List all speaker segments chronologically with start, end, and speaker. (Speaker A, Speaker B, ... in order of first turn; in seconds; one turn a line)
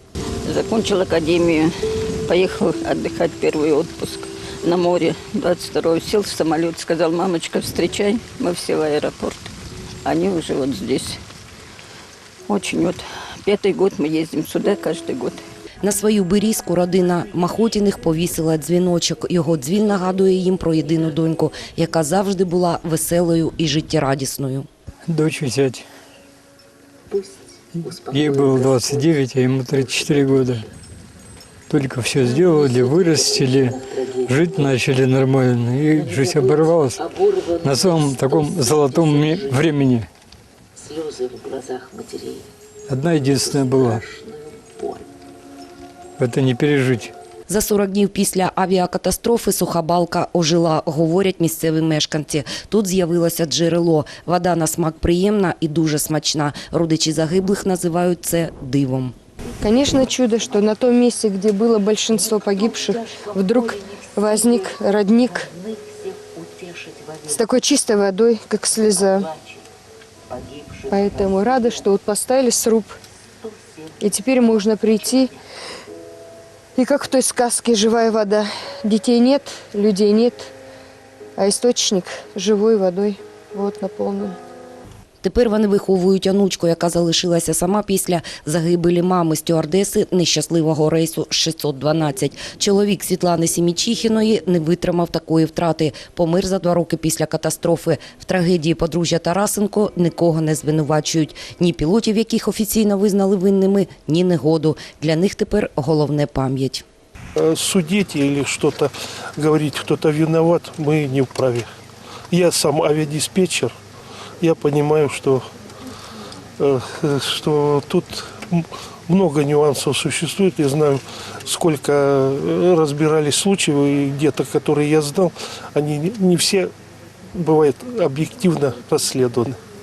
Speaker A: 0.5-1.7
Speaker A: 2.3-9.5
Speaker A: 10.1-11.2
Speaker A: 12.5-15.4
Speaker B: 15.8-24.7
Speaker C: 25.1-25.9
Speaker C: 27.8-30.7
Speaker C: 31.7-40.1
Speaker D: 38.0-38.5
Speaker D: 40.8-42.5
Speaker C: 42.9-44.0
Speaker D: 44.1-45.0
Speaker C: 46.2-47.1
Speaker B: 47.5-59.1
Speaker E: 59.6-65.5
Speaker D: 65.6-67.3
Speaker E: 67.3-69.3
Speaker D: 70.3-70.9
Speaker E: 70.9-73.0
Speaker D: 73.5-73.8
Speaker E: 74.0-75.4
Speaker E: 76.8-80.5
Speaker E: 81.4-84.4
Speaker B: 85.2-106.8
Speaker F: 107.4-111.7
Speaker F: 112.3-113.7
Speaker F: 114.4-115.5
Speaker F: 116.6-126.7
Speaker F: 127.3-129.6